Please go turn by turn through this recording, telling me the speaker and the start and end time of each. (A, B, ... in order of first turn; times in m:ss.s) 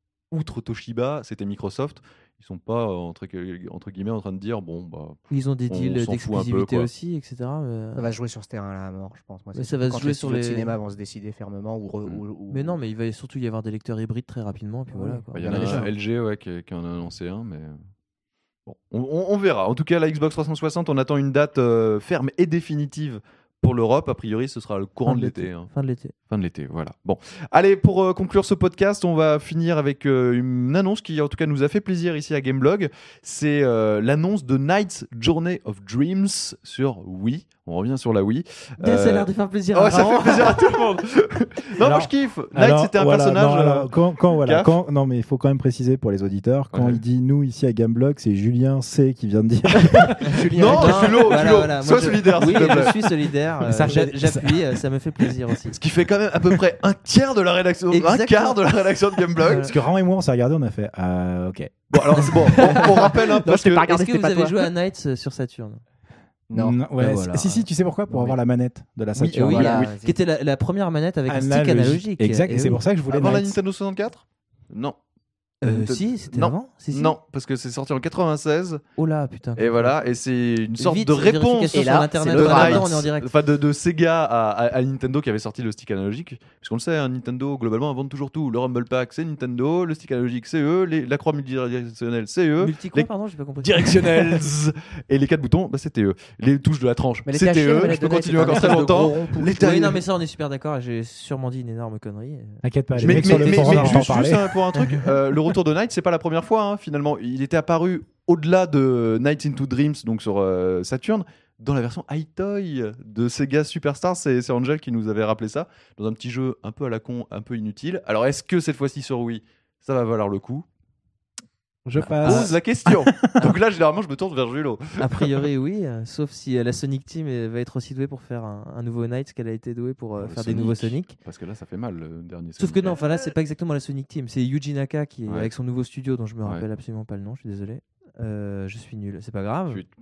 0:00.3-0:06.9 A
0:05.3-0:08.1 B
0:08.0-0:12.8 C
0:09.5-0:10.7 B
0:12.5-0:15.9 B
0:14.9-0:15.9 C
0:15.4-0:17.8 A
0:18.6-0:25.7 A
0:25.0-0:26.1 B
0:26.3-0:44.7 A
0:38.8-0:40.8 B
0:41.8-0:50.4 D
0:46.7-0:47.0 A
0:50.1-0:51.4 C
0:50.5-0:53.3 A
0:50.6-0:55.8 B
0:53.6-0:54.7 D
0:55.7-0:59.8 A
0:57.9-0:58.6 B
0:59.4-0:59.8 B
0:59.5-1:02.4 D
1:01.9-1:03.9 A
1:02.8-1:04.6 C
1:03.8-1:05.8 B
1:06.5-1:08.4 C
1:06.5-1:09.8 D
1:09.2-1:12.8 B
1:09.4-1:09.9 A
1:09.5-1:10.2 C
1:11.3-1:13.6 D
1:13.1-1:15.0 A
1:15.6-1:17.1 B
1:15.6-1:18.8 A
1:19.0-1:19.9 B
1:19.6-1:40.0 A
1:20.8-1:23.3 B
1:21.7-1:22.9 C
1:32.6-1:34.4 B
1:37.2-1:39.5 C
1:37.8-1:38.8 B
1:39.5-1:45.1 B
1:42.6-1:44.4 D
1:43.0-2:00.6 A
2:01.8-2:03.4 D
2:02.0-2:05.4 A
2:02.2-2:02.5 B
2:05.0-2:11.2 B
2:10.2-2:13.2 A
2:12.6-2:19.8 B